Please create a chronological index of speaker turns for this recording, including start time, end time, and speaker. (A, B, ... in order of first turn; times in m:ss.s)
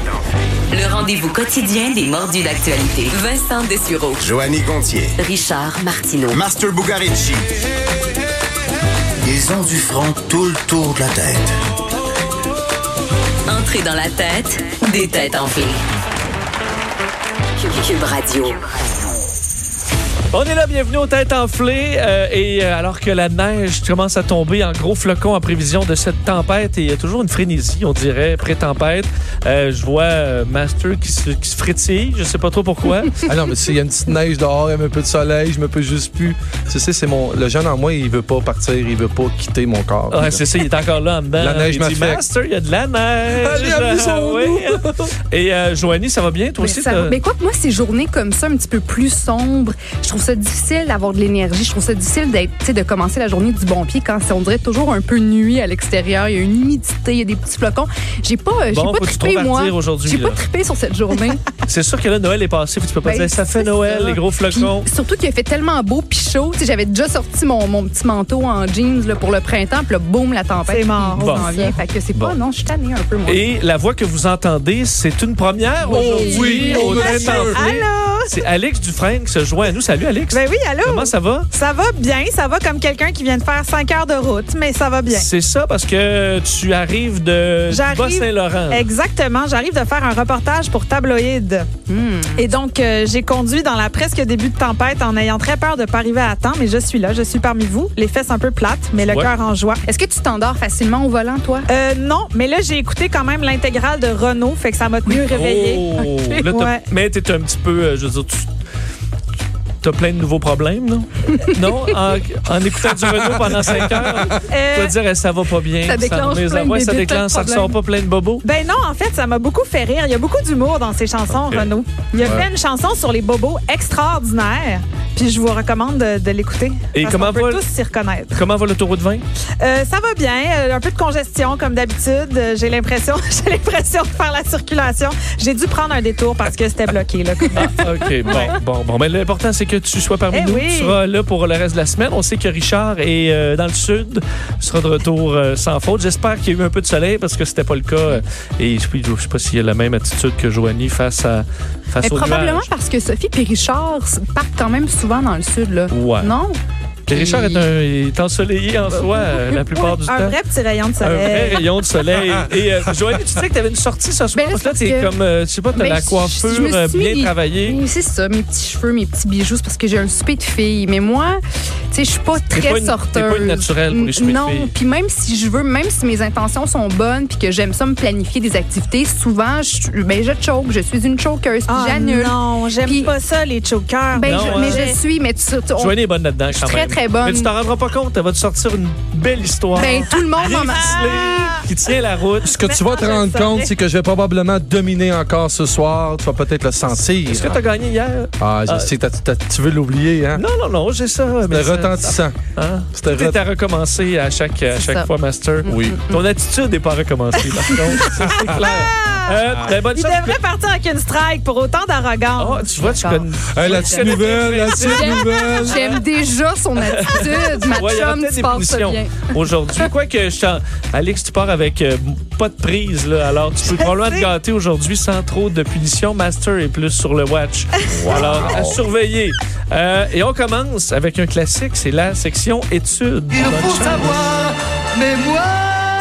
0:00.7-0:04.3 A
0:04.2-0:05.2 B
0:05.2-0:06.4 A
0:06.3-0:07.4 B
0:09.2-0:11.5 B
0:13.5-0:15.8 A
0:17.6-0:18.6 A
0:20.3-0:33.2 C
0:33.2-0:40.4 D
0:40.1-0:47.2 C
0:41.4-0:42.2 D
0:43.3-0:44.9 D
0:46.6-1:01.5 E
0:58.7-1:00.4 C
1:01.6-1:04.9 C
1:03.0-1:13.5 E
1:10.7-1:11.8 F
1:11.2-1:11.5 C
1:13.2-1:21.5 C
1:15.8-1:17.2 E
1:15.9-1:17.6 D
1:16.7-1:18.3 F
1:20.3-1:25.3 F
1:25.1-1:28.9 C
1:27.7-1:31.7 F
1:31.9-1:32.5 E
1:32.4-1:39.8 F
1:39.0-1:39.3 C
1:39.8-1:41.7 E
1:41.7-1:46.0 F
1:45.1-1:48.5 C
1:46.0-1:46.4 E
1:46.5-1:46.9 F
1:49.8-1:58.4 C
1:53.1-1:54.4 D
1:54.5-1:55.0 F
1:55.8-1:57.8 E
1:58.4-2:08.4 F
2:01.3-2:01.7 C
2:02.2-2:02.5 D
2:06.9-2:07.6 C
2:08.3-2:09.2 C
2:09.6-2:18.6 F
2:17.5-2:32.7 C
2:20.3-2:21.0 F
2:32.0-2:37.7 E
2:35.9-2:36.4 C
2:37.1-2:40.4 C
2:39.6-2:41.6 F
2:41.0-2:47.8 C
2:44.4-2:45.2 E
2:45.7-3:03.1 E
2:52.5-2:54.7 C
3:01.7-3:05.0 F
3:04.1-3:07.5 E
3:04.2-3:04.9 C
3:05.8-3:12.6 C
3:09.8-3:11.6 E
3:09.8-3:11.5 F
3:12.4-3:17.6 D
3:12.6-3:13.7 F
3:17.2-3:18.9 C
3:18.4-3:20.4 D
3:20.4-3:30.4 C
3:21.5-3:22.4 D
3:22.9-3:23.4 D
3:24.7-3:25.1 E
3:25.6-3:26.2 E
3:25.7-3:26.0 D
3:28.0-3:32.6 F
3:32.4-3:35.9 C
3:32.7-3:39.3 E
3:33.5-3:35.9 D
3:35.5-3:36.0 F
3:36.8-3:54.3 C
3:43.6-3:44.3 F
3:47.9-3:48.8 D
3:48.0-3:48.5 F